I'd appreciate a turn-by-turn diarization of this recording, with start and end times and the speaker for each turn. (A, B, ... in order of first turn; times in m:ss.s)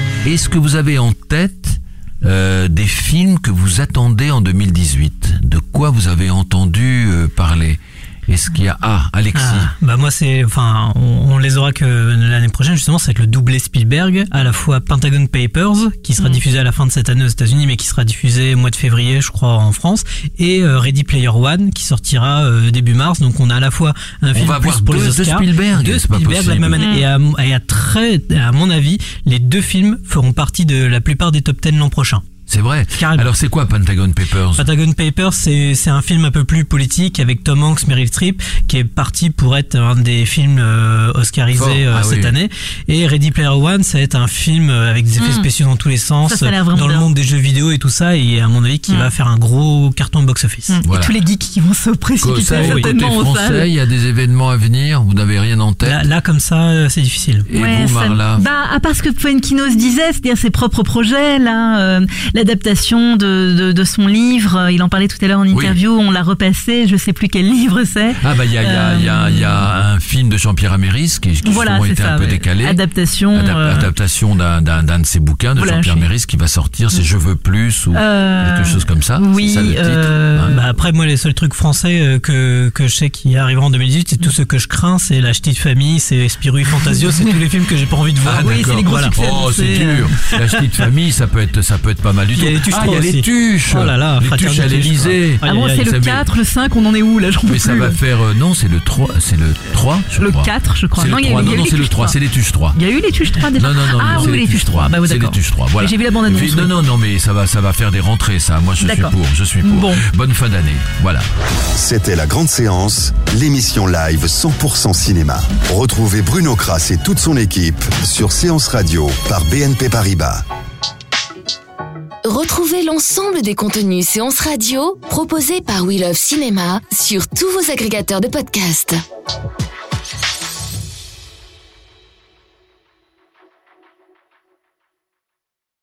0:00.2-0:09.7 A
0:09.3-0:32.2 B
0:24.3-0:26.8 A
0:26.8-0:27.0 C
0:32.5-0:34.7 A
0:33.0-0:33.3 B
0:34.6-0:50.8 B
0:41.5-0:42.3 A
0:45.2-0:45.5 C
0:46.3-0:47.1 C
0:50.7-0:53.7 C
0:50.8-0:51.2 A
0:52.2-0:56.0 A
0:52.5-0:52.9 B
0:55.8-0:57.5 B
0:57.5-0:58.4 A
0:57.5-1:09.6 C
1:05.5-1:05.8 A
1:08.2-1:12.8 A
1:11.4-1:13.9 C
1:13.3-1:20.6 A
1:15.6-1:16.1 C
1:17.9-1:20.6 C
1:20.5-1:29.1 B
1:28.2-1:36.2 A
1:28.4-1:30.3 C
1:32.3-1:35.8 B
1:35.4-1:38.0 C
1:37.4-1:42.8 A
1:40.2-1:42.2 C
1:42.7-1:46.7 C
1:43.5-1:51.2 A
1:48.8-1:50.0 C
1:51.8-2:00.4 D
2:02.2-2:09.0 E